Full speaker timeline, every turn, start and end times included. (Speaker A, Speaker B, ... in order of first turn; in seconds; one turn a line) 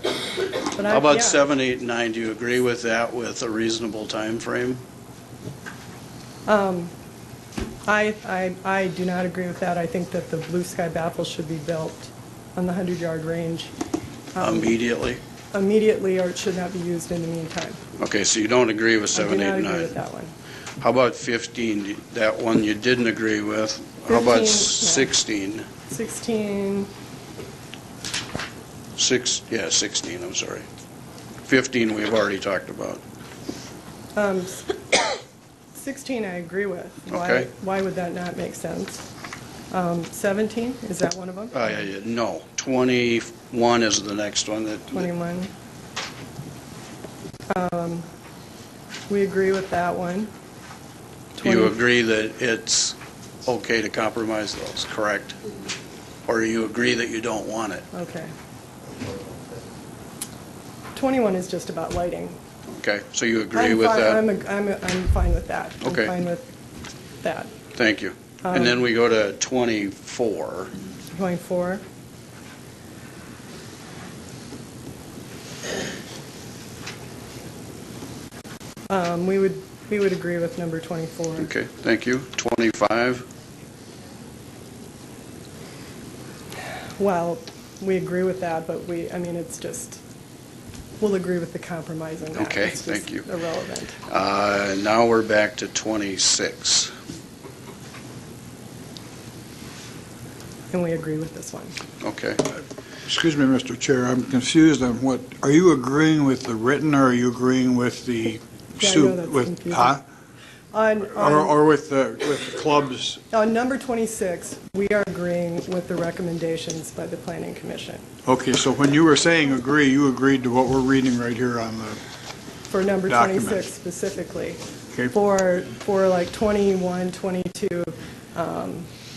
Speaker A: 0.7-1.4
Speaker B: 0.8-4.8
Speaker A: 6.5-6.9
Speaker A: 7.8-13.7
Speaker A: 14.3-14.8
Speaker B: 14.4-15.2
Speaker A: 15.5-17.8
Speaker B: 18.0-19.9
Speaker A: 19.1-20.3
Speaker B: 20.8-25.6
Speaker A: 24.1-25.1
Speaker A: 25.9-26.9
Speaker B: 29.0-30.6
Speaker B: 31.4-33.0
Speaker A: 34.1-35.0
Speaker A: 35.7-39.0
Speaker B: 37.1-37.5
Speaker A: 39.7-41.6
Speaker B: 41.5-45.0
Speaker A: 44.9-45.5
Speaker A: 47.5-48.0
Speaker A: 49.1-50.3
Speaker B: 51.4-55.4
Speaker A: 51.4-51.7
Speaker B: 56.2-57.9
Speaker A: 57.9-58.3
Speaker A: 61.0-62.4
Speaker B: 62.8-64.2
Speaker A: 63.5-66.5
Speaker B: 65.8-66.1
Speaker A: 67.2-67.6
Speaker B: 67.7-70.7
Speaker A: 68.4-68.8
Speaker A: 71.1-71.8
Speaker A: 78.9-81.5
Speaker B: 81.4-83.2
Speaker A: 87.0-90.0
Speaker A: 91.0-94.0
Speaker B: 92.3-93.3
Speaker B: 94.1-96.9
Speaker A: 100.7-101.8
Speaker B: 102.0-102.4
Speaker C: 103.1-110.0
Speaker A: 108.8-110.0
Speaker A: 110.7-111.5
Speaker C: 111.1-113.2
Speaker A: 113.3-118.0
Speaker C: 118.2-122.0
Speaker A: 122.7-128.9
Speaker C: 123.1-123.7